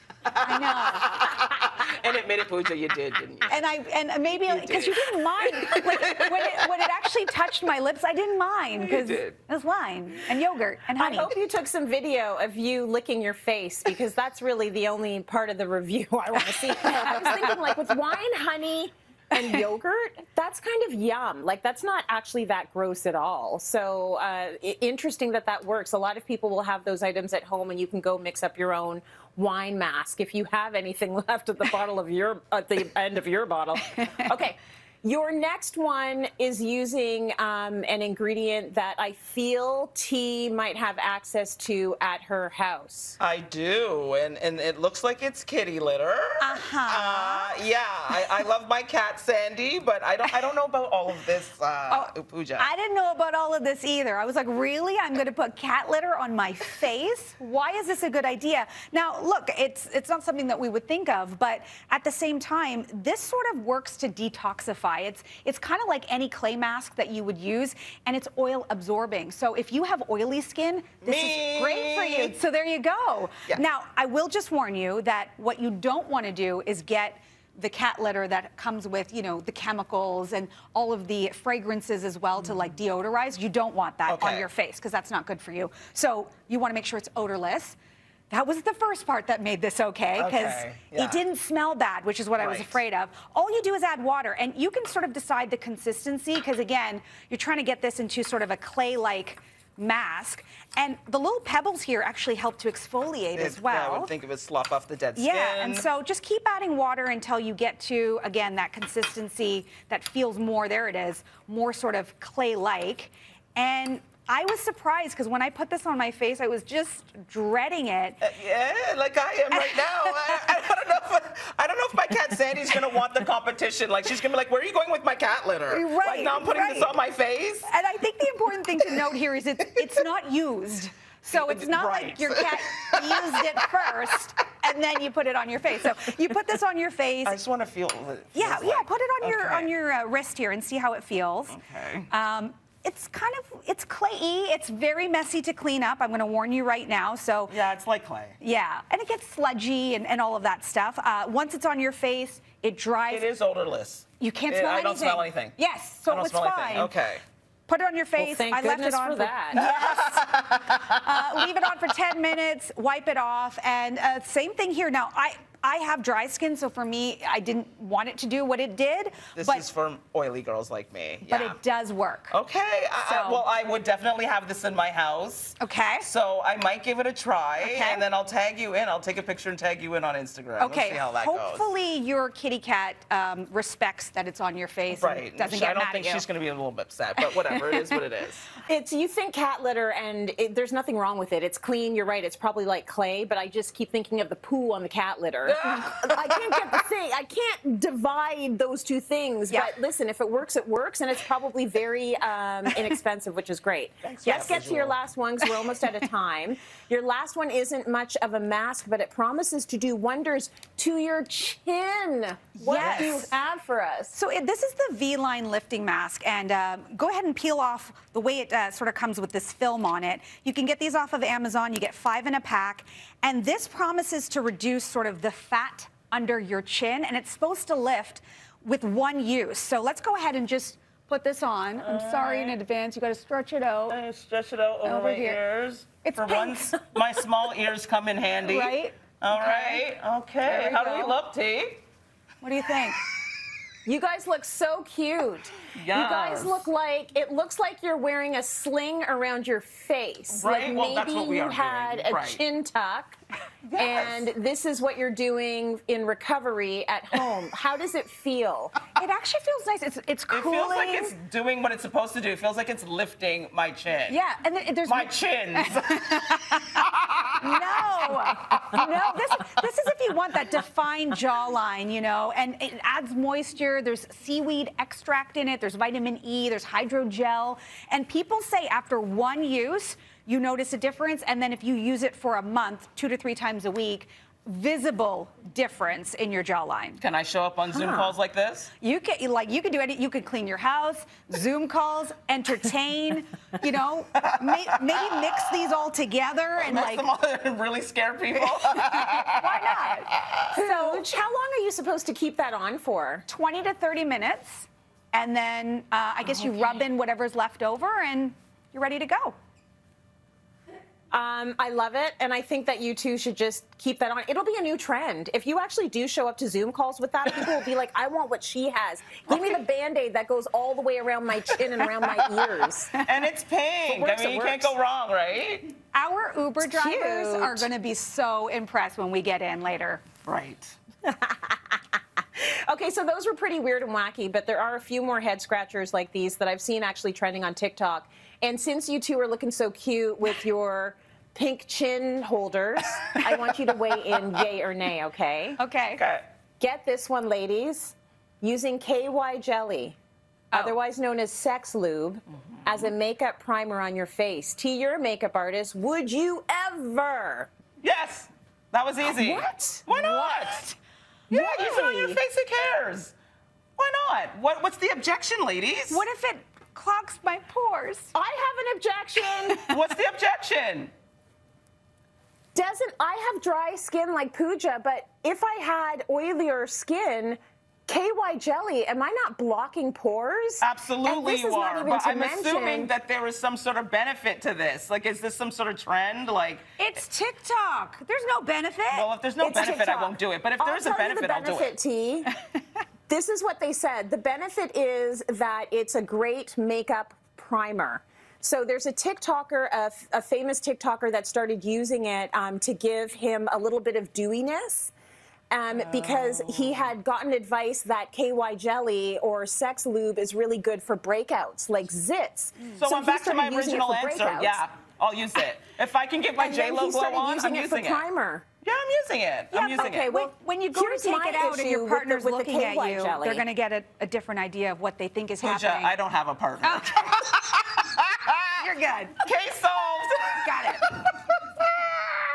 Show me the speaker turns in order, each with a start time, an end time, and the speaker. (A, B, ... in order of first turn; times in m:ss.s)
0:00.3-0:03.6 A
0:00.3-0:01.5 B
0:03.5-0:11.3 B
0:04.3-0:06.7 A
0:08.8-0:09.3 A
0:11.0-0:43.2 C
0:43.2-0:52.7 A
0:46.4-0:47.6 B
0:51.9-1:27.8 B
1:11.0-1:12.3 A
1:24.1-1:24.5 A
1:28.3-1:44.1 B
1:30.1-1:31.2 A
1:32.4-1:32.8 A
1:43.4-1:45.9 A
1:45.2-1:58.2 B
1:58.2-2:07.7 A
1:59.5-2:00.5 B
2:05.7-2:07.0 B
2:07.6-2:17.4 B
2:11.3-2:13.6 A
2:17.2-2:19.7 A
2:18.3-2:21.6 B
2:21.5-2:22.1 A
2:22.1-2:27.6 B
2:27.5-2:28.4 A
2:28.4-2:33.2 B
2:33.1-2:35.5 A
2:34.2-2:36.9 B
2:36.1-2:37.2 A
2:37.7-2:49.6 B
2:38.2-2:39.6 C
2:39.5-2:41.5 A
2:49.3-2:51.6 A
2:51.3-2:52.3 B
2:52.3-3:01.6 A
2:53.0-2:53.4 B
2:55.6-2:56.1 B
2:57.6-2:58.0 B
3:00.6-3:06.3 B
3:04.9-3:08.5 A
3:07.3-3:08.0 B
3:08.6-3:34.2 C
3:15.4-3:16.8 A
3:24.0-3:25.0 A
3:32.6-3:33.3 B
3:32.7-3:33.2 A
3:34.1-3:54.0 B
3:51.8-3:52.6 A
3:53.9-4:01.8 A
3:54.8-3:55.4 B
3:56.0-3:56.9 B
3:58.4-3:59.8 B
4:00.4-4:01.2 B
4:02.4-4:03.0 B
4:03.8-4:13.2 C
4:05.7-4:06.6 A
4:10.3-4:12.4 A
4:13.8-4:18.8 C
4:19.0-4:21.1 B
4:20.3-4:24.2 A
4:24.1-4:26.8 B
4:24.8-4:27.8 A
4:27.4-4:47.0 B
4:47.0-4:48.7 A
4:47.7-4:48.1 C
4:48.8-4:57.1 B
4:54.2-4:55.4 A
4:56.6-5:00.5 A
4:58.7-5:01.0 B
5:00.5-5:03.2 C
5:03.3-5:09.4 B
5:11.1-5:22.9 C
5:22.9-5:25.7 A
5:23.9-5:24.7 C
5:25.9-5:30.0 B
5:26.6-5:27.7 C
5:30.2-5:30.7 A
5:31.0-5:31.8 C
5:32.4-5:45.6 C
5:43.2-5:43.6 A
5:45.6-5:46.0 B
5:46.0-5:46.2 A
5:46.6-5:50.0 C
5:50.5-5:57.5 C
5:57.8-6:00.6 A
5:59.0-5:59.8 C
5:59.9-6:00.8 B
6:01.3-6:02.2 B
6:01.3-6:03.1 A
6:03.8-6:06.0 A
6:05.9-6:08.1 B
6:08.1-6:09.6 C
6:09.5-6:09.8 B
6:09.7-6:10.9 A
6:12.5-6:22.9 C
6:20.6-6:26.7 A
6:26.8-6:29.1 B
6:28.9-6:31.7 A
6:29.4-6:32.3 C
6:33.1-6:44.9 C
6:45.5-6:54.6 C
6:45.8-6:46.9 A
6:52.8-6:58.0 A
6:56.4-6:58.4 C
6:58.6-7:00.1 A
6:59.5-7:05.9 B
6:59.8-7:03.4 C
7:05.4-7:08.6 A
7:06.6-7:07.6 B
7:08.5-7:09.2 B
7:09.2-7:12.0 A
7:10.4-7:10.9 B